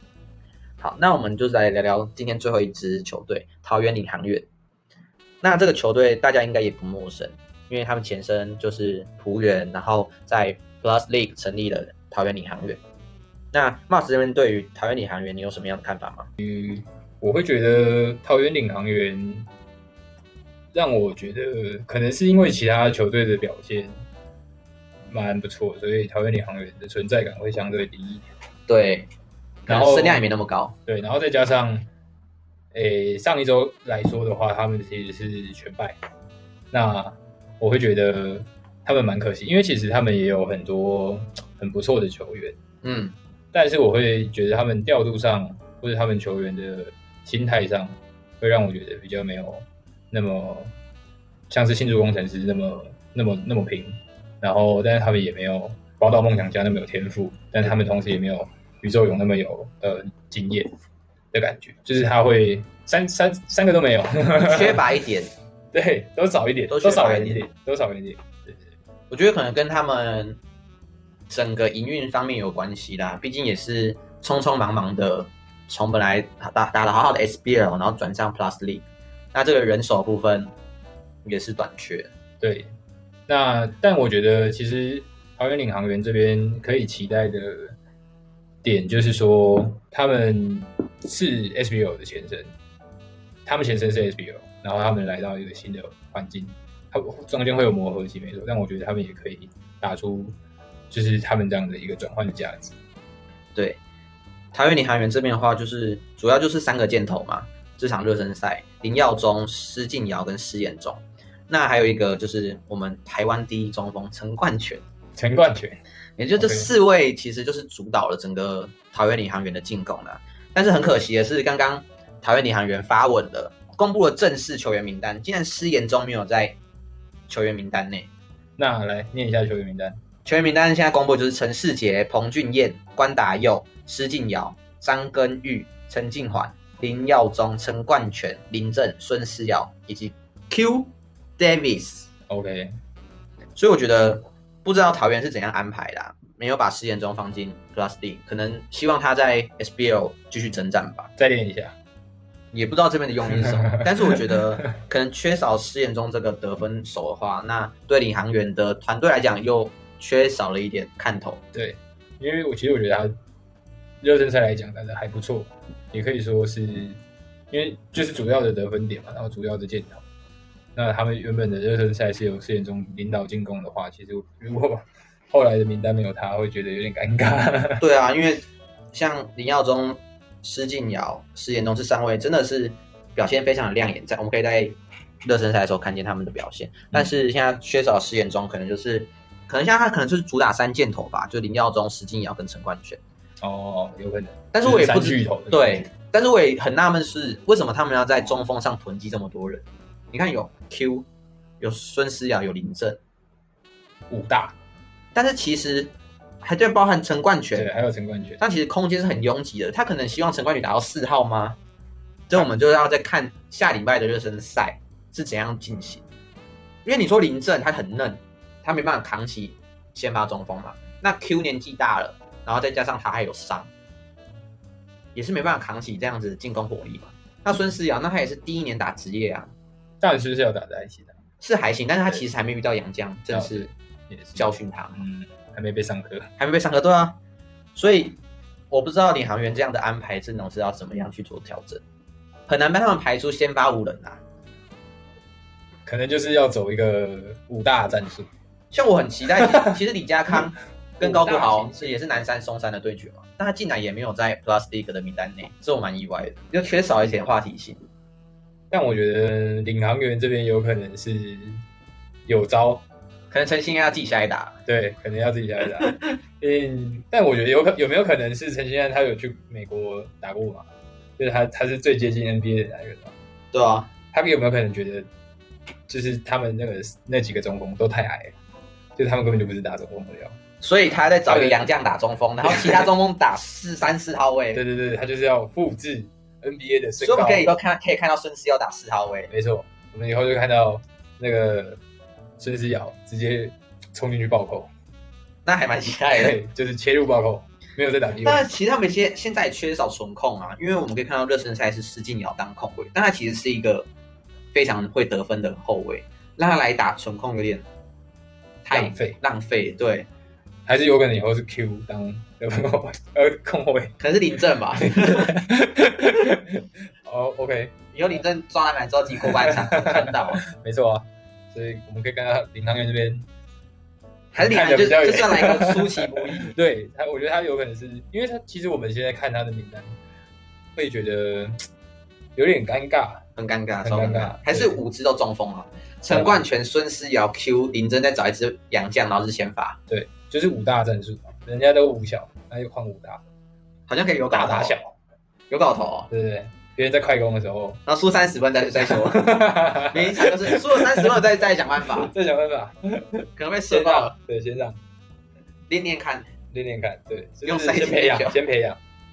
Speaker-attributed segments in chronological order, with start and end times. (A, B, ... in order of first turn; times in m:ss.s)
0:00.8-0:04.4 A
0:05.4-0:12.8 A
0:13.5-0:16.3 A
0:16.4-0:19.5 B
0:20.7-0:24.0 B
0:25.1-0:28.2 B
0:28.7-0:29.1 A
0:29.6-0:30.7 A
0:29.7-0:30.2 B
0:30.8-0:31.9 B
0:32.7-0:36.0 B
0:36.7-0:42.6 B
0:42.8-0:43.2 A
0:43.5-0:50.7 B
0:51.5-1:00.7 B
1:01.3-1:04.8 B
1:04.4-1:05.3 A
1:05.7-1:08.6 B
1:06.7-1:07.4 A
1:09.1-1:10.4 A
1:11.3-1:20.5 A
1:21.2-1:22.1 A
1:22.4-1:22.7 B
1:23.3-1:27.8 B
1:28.6-1:32.5 B
1:33.4-1:40.3 B
1:40.9-1:42.7 B
1:43.5-1:43.8 A
1:44.5-1:54.8 A
1:55.2-1:55.8 B
1:56.2-2:06.6 A
1:56.3-1:56.7 B
2:07.3-2:08.1 A
2:08.6-2:10.0 B
2:10.2-2:22.1 A
2:22.3-2:22.7 B
2:23.5-2:31.1 A
2:31.2-2:31.7 B
2:32.5-2:41.4 A
2:33.4-2:34.1 B
2:41.5-2:43.1 B
2:44.0-2:47.0 B
2:47.5-2:50.0 B
2:50.7-2:57.8 B
2:57.8-3:13.0 A
3:13.4-3:15.9 B
3:14.5-3:21.0 A
3:21.6-3:23.0 A
3:24.1-3:24.5 B
3:25.1-3:27.7 A
3:27.5-3:28.4 B
3:28.4-3:31.6 A
3:32.3-3:36.0 A
3:36.8-3:43.7 A
3:45.1-3:49.5 A
3:50.0-3:51.1 B
3:51.4-3:53.7 A
3:53.3-3:56.3 B
3:54.4-3:55.0 A
3:56.4-3:57.2 A
3:57.7-3:58.2 A
3:58.7-4:01.8 A
4:02.5-4:04.2 A
4:05.8-4:08.3 B
4:08.7-4:17.8 A
4:09.4-4:09.7 B
4:11.0-4:12.2 B
4:18.7-4:21.6 B
4:22.2-4:22.8 B
4:23.3-4:24.6 A
4:24.6-4:33.1 B
4:25.8-4:26.1 A
4:33.5-4:33.9 A
4:34.1-4:35.1 B
4:35.9-4:38.3 B
4:39.0-4:40.4 B
4:40.6-4:44.6 A
4:41.2-4:41.6 B
4:42.5-4:42.9 B
4:44.5-4:47.5 B
4:47.0-4:49.3 A
4:49.3-4:51.8 B
4:52.4-4:54.7 B
4:55.4-4:56.4 A
4:56.1-4:58.5 B
4:58.2-5:03.9 A
5:04.5-5:07.6 A
5:08.6-5:10.1 A
5:08.7-5:09.2 B
5:10.6-5:13.9 B
5:14.0-5:15.3 A
5:14.8-5:17.7 B
5:17.9-5:20.4 A
5:19.2-5:23.3 B
5:24.3-5:30.0 B
5:24.3-5:26.5 A
5:30.8-5:31.6 B
5:32.3-5:33.2 B
5:33.4-5:39.8 A
5:33.8-5:34.8 B
5:36.1-5:36.4 B
5:39.9-5:43.2 B
5:43.9-5:44.8 A
5:44.3-5:44.9 B
5:45.5-5:46.1 A
5:46.1-5:47.8 B
5:47.8-5:52.1 A
5:48.6-5:51.2 B
5:51.9-5:54.8 B
5:53.4-5:54.2 A
5:55.7-5:56.3 A
5:56.5-5:58.8 B
5:57.4-5:58.4 A